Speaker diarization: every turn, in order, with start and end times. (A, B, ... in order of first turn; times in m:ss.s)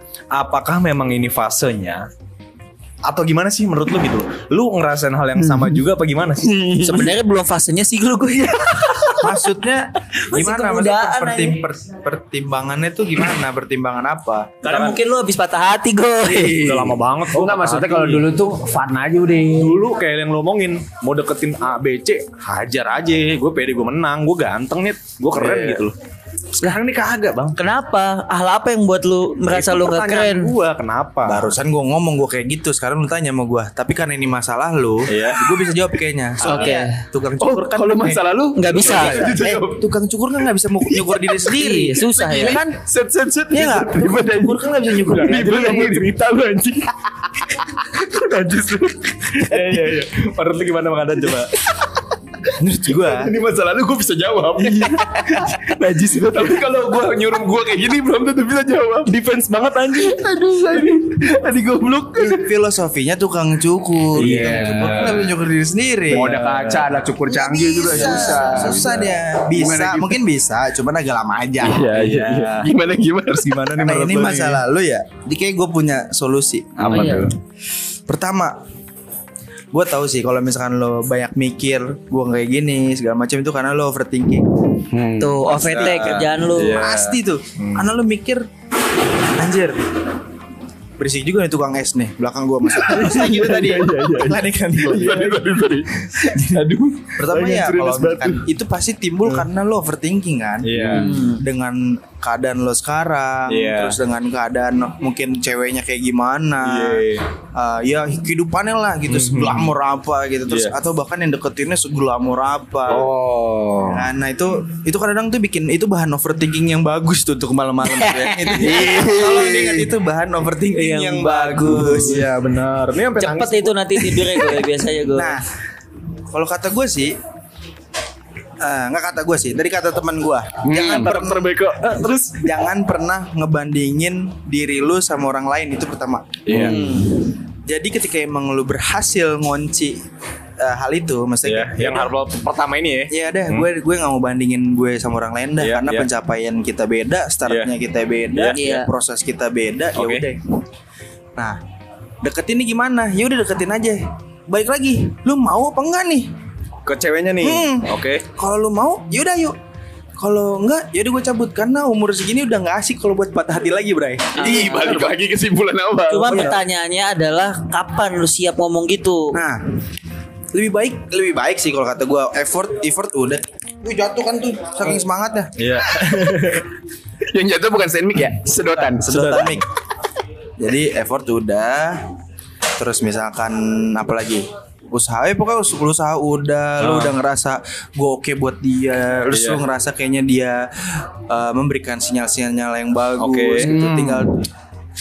0:00.3-0:02.1 A
0:03.0-0:07.0 A
0:06.5-0:07.1 B
0:06.8-0:09.5 C
0:09.2-0:14.6 D
0:10.3-0:11.6 C
0:14.6-0:16.7 C
0:14.6-0:15.0 A
0:16.2-0:19.8 B
0:16.4-0:18.3 A
0:19.6-0:26.0 A
0:25.3-0:25.8 B
0:26.6-0:27.6 A
0:27.6-0:30.5 C
0:29.5-0:31.5 A
0:31.3-0:38.2 D
0:35.1-0:35.4 A
0:36.4-0:36.8 A
0:36.4-0:37.0 C
0:37.4-0:39.9 B
0:38.6-0:39.4 C
0:38.8-0:42.8 D
0:40.9-0:41.5 B
0:41.5-0:42.6 C
0:42.2-0:46.2 B
0:43.5-0:45.7 D
0:45.1-0:46.9 A
0:47.9-0:51.5 A
0:49.3-0:49.9 B
0:52.6-0:53.3 D
0:53.0-0:56.7 A
0:54.5-0:59.1 B
0:59.0-1:01.5 A
0:59.9-1:02.3 B
1:02.1-1:06.3 D
1:04.2-1:05.3 A
1:04.2-1:05.3 B
1:06.1-1:10.2 B
1:06.1-1:07.1 A
1:07.3-1:12.1 D
1:08.0-1:09.0 A
1:11.6-1:12.7 A
1:11.7-1:13.7 B
1:13.3-1:14.6 A
1:13.7-1:17.1 D
1:16.8-1:17.3 A
1:16.8-1:17.3 B
1:16.9-1:17.3 C
1:18.1-1:18.6 D
1:19.7-1:24.8 D
1:24.9-1:25.5 B
1:25.2-1:26.8 C
1:25.5-1:27.9 A
1:26.7-1:28.5 D
1:29.2-1:29.9 D
1:31.0-1:35.4 D
1:32.9-1:38.5 A
1:33.0-1:33.6 B
1:34.9-1:35.8 B
1:36.2-1:53.1 D
1:40.6-1:41.2 A
1:40.7-1:41.1 B
1:40.9-1:41.4 C
1:43.5-1:44.0 A
1:46.6-1:47.2 A
1:49.1-1:49.7 A
1:50.5-1:50.8 A
1:52.9-1:54.1 B
1:53.8-2:02.3 D
1:57.9-1:58.8 C
1:58.6-1:59.9 B
2:00.7-2:02.3 C
2:01.7-2:04.3 A
2:03.2-2:05.4 C
2:05.1-2:05.5 D
2:06.3-2:07.2 D
2:08.6-2:16.8 D
2:10.6-2:11.1 B
2:10.7-2:12.5 A
2:16.5-2:16.9 A
2:16.5-2:17.2 C
2:16.6-2:16.8 B
2:17.7-2:20.0 D
2:20.6-2:22.1 D
2:21.4-2:23.7 A
2:23.1-2:30.4 D
2:25.6-2:26.1 A
2:27.5-2:27.7 A
2:28.3-2:28.6 A
2:28.5-2:28.9 C
2:30.0-2:30.3 A
2:32.2-2:36.3 D
2:36.9-2:38.3 A
2:37.4-2:39.6 D
2:40.2-2:44.7 D
2:44.4-2:45.1 C
2:44.4-2:46.6 B
2:46.1-2:49.4 C
2:46.3-2:46.6 A
2:49.3-2:49.6 D
2:50.5-2:53.4 D
2:53.8-2:54.9 B
2:54.6-2:55.6 D
2:55.6-2:56.7 A
2:57.2-2:59.3 B
2:58.9-2:59.6 D
2:59.0-2:59.6 A
3:00.6-3:02.0 D
3:02.8-3:14.5 D
3:06.8-3:07.2 A
3:09.3-3:09.6 A
3:13.2-3:13.7 A
3:13.6-3:14.3 B